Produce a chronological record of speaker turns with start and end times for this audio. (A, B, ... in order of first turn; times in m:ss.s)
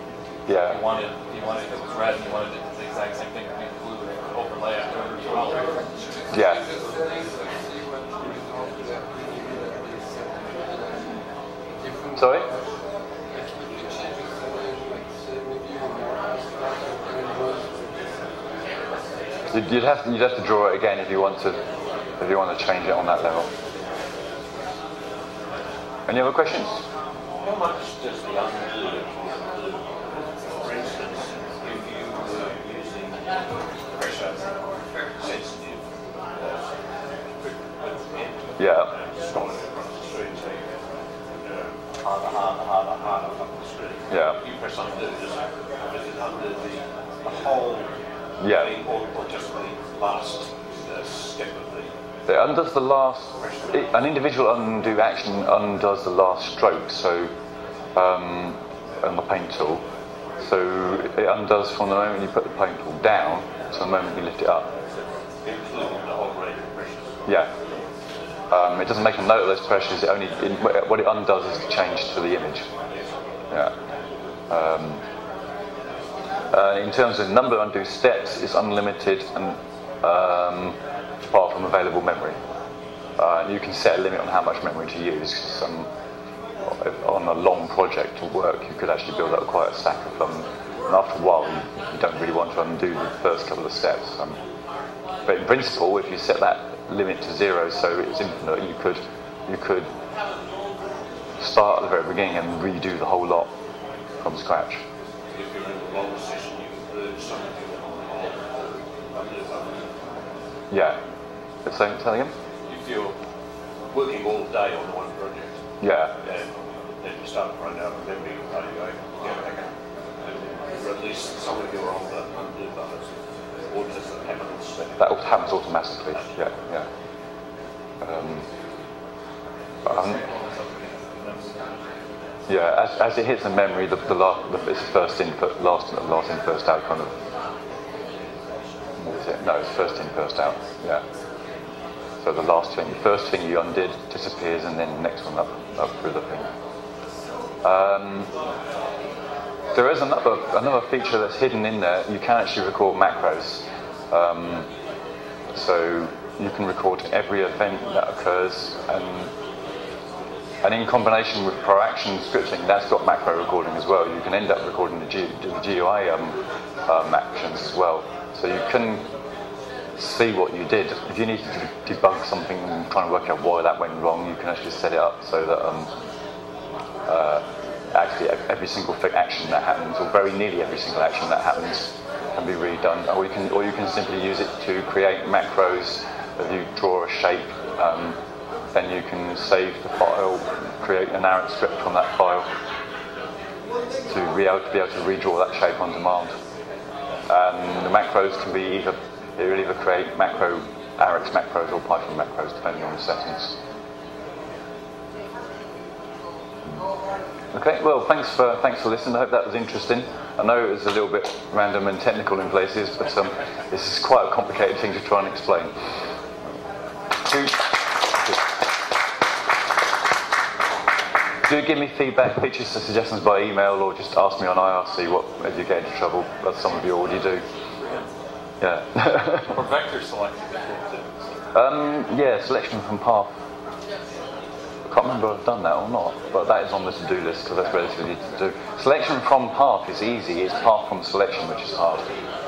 0:00.5-0:00.8 A
0:00.6-0:05.8 B
0:05.3-0:12.7 C
0:06.3-0:06.6 A
0:12.2-0:12.5 A
0:13.3-0:18.3 C
0:19.5-0:21.6 A
0:22.2-0:23.5 A
0:26.1-0:26.8 A
0:27.4-0:33.3 D
0:33.9-0:35.8 D
0:36.4-0:36.7 D
0:37.4-0:40.7 D
0:38.6-0:38.9 A
0:41.4-0:47.9 D
0:44.1-0:44.4 A
0:48.4-0:48.7 A
0:48.4-0:51.9 D
0:52.3-0:57.3 A
0:53.4-0:53.8 D
0:57.9-0:59.8 A
1:00.4-1:04.7 A
1:05.4-1:07.1 D
1:08.5-1:12.7 A
1:14.5-1:15.0 A
1:16.5-1:20.8 A
1:21.3-1:22.4 A
1:23.2-1:25.9 A
1:26.6-1:34.4 A
1:35.2-1:39.9 A
1:41.4-1:43.5 A
1:44.2-1:44.8 A
1:45.3-1:50.0 D
1:50.7-1:51.0 A
1:51.6-1:52.3 A
1:52.6-1:53.2 D
1:53.9-1:55.6 D
1:55.8-1:56.1 A
1:56.2-2:03.1 D
2:03.7-2:05.0 D
2:05.0-2:06.9 A
2:08.0-2:08.5 A
2:09.8-2:11.9 B
2:09.8-2:10.2 A
2:12.5-2:17.1 A
2:19.0-2:21.0 A
2:22.2-2:26.5 A
2:27.6-2:28.3 A
2:29.7-2:34.7 A
2:35.5-2:39.3 A
2:40.6-2:49.1 A
2:50.0-2:55.9 A
2:57.1-3:08.2 A
3:08.7-3:12.5 A
3:14.1-3:16.4 A
3:17.3-3:23.6 A
3:27.5-3:35.7 A
3:37.2-3:38.4 A
3:41.4-3:47.4 A
3:47.8-3:48.1 B
3:48.6-3:49.6 A
3:49.4-3:51.1 B
3:51.5-3:53.3 A
3:54.9-4:02.2 A